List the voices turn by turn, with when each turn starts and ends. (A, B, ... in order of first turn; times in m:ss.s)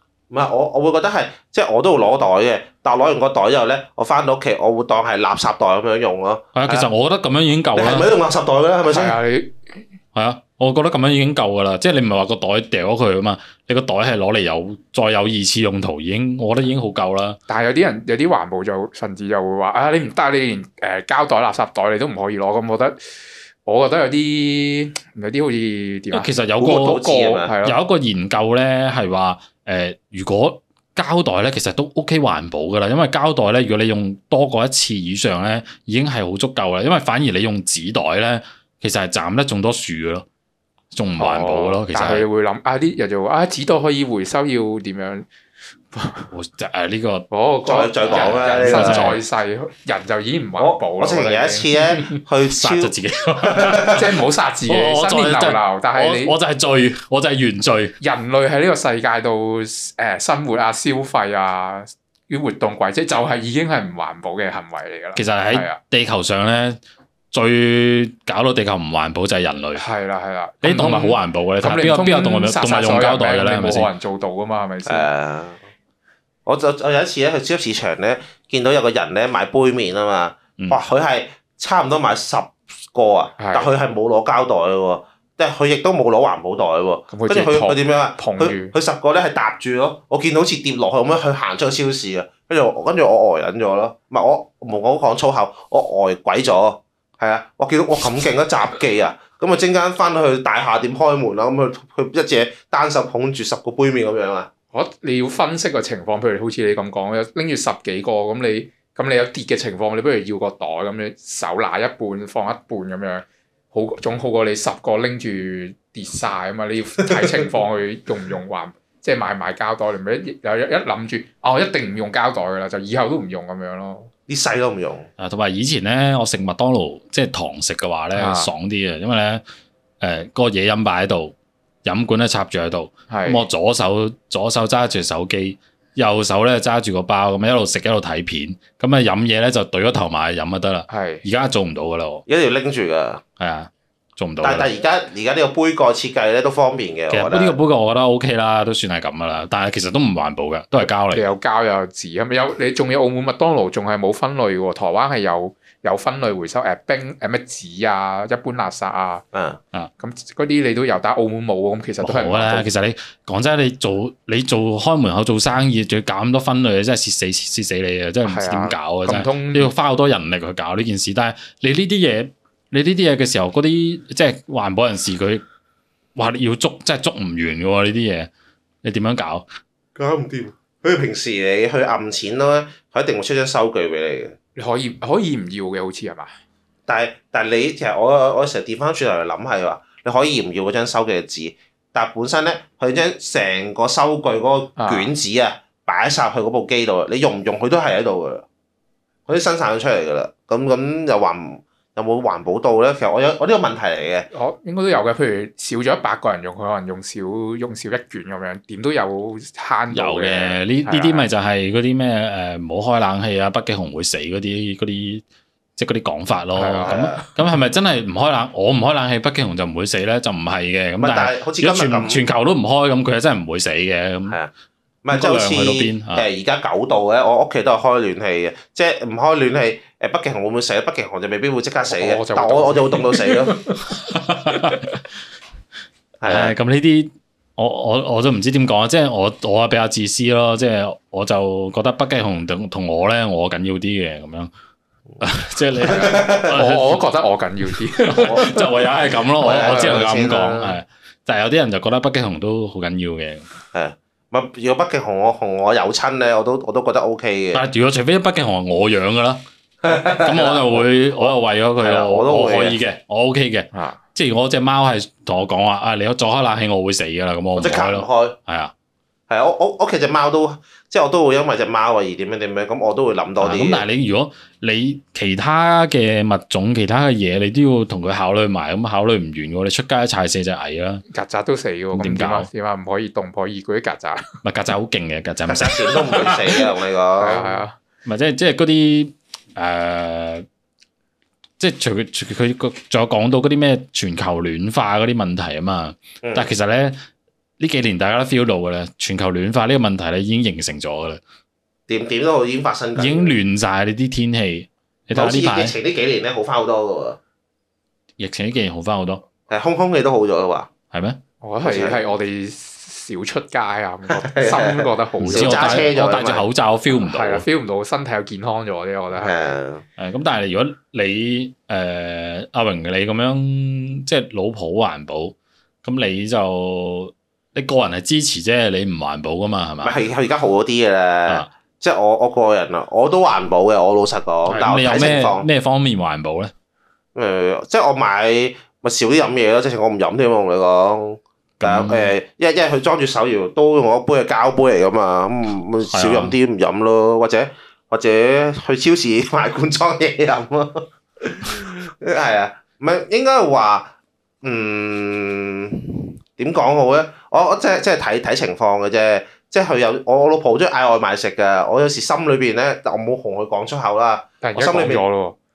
0:00.3-0:06.9 A
0:06.6-0:08.1 B
0:07.7-0:09.2 A
0:08.8-0:09.8 C
0:10.1-0:17.4 B
0:17.5-0:27.8 C
0:26.1-0:40.2 B
0:26.6-0:27.5 A
0:40.9-0:42.3 B
0:41.2-0:45.3 C
0:45.9-0:46.3 C
0:46.3-0:47.2 B
0:47.3-0:52.0 C
0:47.6-0:49.2 A
0:48.0-0:49.2 B
0:50.6-0:54.0 A
0:52.5-0:54.0 B
0:53.8-0:56.4 C
0:54.7-0:58.0 B
0:58.0-1:05.8 C
1:05.1-1:06.8 B
1:07.3-1:09.8 B
1:09.7-1:15.1 C
1:10.6-1:13.9 B
1:14.8-1:15.6 A
1:16.4-1:44.5 A
1:23.4-1:23.8 C
1:27.1-1:28.7 C
1:44.7-2:04.1 C
2:04.3-2:05.1 A
2:05.2-2:09.4 B
2:08.1-2:08.5 C
2:10.0-2:22.2 B
2:13.1-2:13.5 C
2:20.9-2:21.2 C
2:22.3-2:23.2 A
2:23.4-2:24.7 B
2:24.4-2:27.6 A
2:27.1-2:31.2 B
2:31.1-2:39.2 C
2:39.3-2:39.6 A
2:40.0-2:42.7 C
2:42.0-2:55.4 B
2:48.2-2:49.7 C
2:56.2-2:58.3 B
2:58.8-2:59.4 B
2:59.9-3:04.4 A
3:04.6-3:06.3 C
3:06.9-3:18.4 A
3:14.8-3:15.1 C
3:19.3-3:24.3 A
3:24.3-3:31.2 C
3:29.9-3:35.2 B
3:35.8-3:44.4 B
3:36.5-3:37.1 C
3:36.8-3:37.2 A
3:41.0-3:42.2 A
3:45.0-3:53.6 A
3:45.1-3:46.2 B
3:51.9-3:53.8 C
3:53.9-3:55.0 B
3:56.2-3:56.5 A
3:56.2-4:04.5 B
4:05.2-4:07.0 B
4:05.9-4:08.8 C
4:05.9-4:06.5 A
4:08.1-4:13.5 B
4:08.1-4:08.5 A
4:09.4-4:10.8 A
4:09.4-4:09.9 C
4:13.7-4:17.6 A
4:17.5-4:28.7 B
4:19.8-4:22.8 A
4:23.7-4:24.0 C
4:27.5-4:28.4 A
4:29.3-4:33.8 A
4:33.4-4:41.0 B
4:41.1-4:44.3 C
4:41.9-4:42.5 B
4:44.4-4:46.4 B
4:45.5-4:47.6 A
4:47.2-4:47.8 C
4:48.0-4:50.4 B
4:51.6-4:57.0 B
4:56.2-4:56.5 A
4:57.6-5:01.2 B
5:01.9-5:03.4 A
5:03.0-5:05.8 B
5:05.1-5:07.2 A
5:08.2-5:09.2 B
5:09.5-5:10.7 A
5:10.9-5:11.2 B
5:11.4-5:15.9 C
5:11.6-5:12.0 A
5:14.1-5:16.4 A
5:15.2-5:17.4 B
5:16.9-5:19.4 C
5:19.2-5:19.8 A
5:20.0-5:30.0 B
5:29.8-5:35.5 A
5:34.5-5:36.5 B
5:37.1-6:05.0 A
5:41.6-5:42.1 B
5:45.9-5:46.3 B
6:04.4-6:05.4 C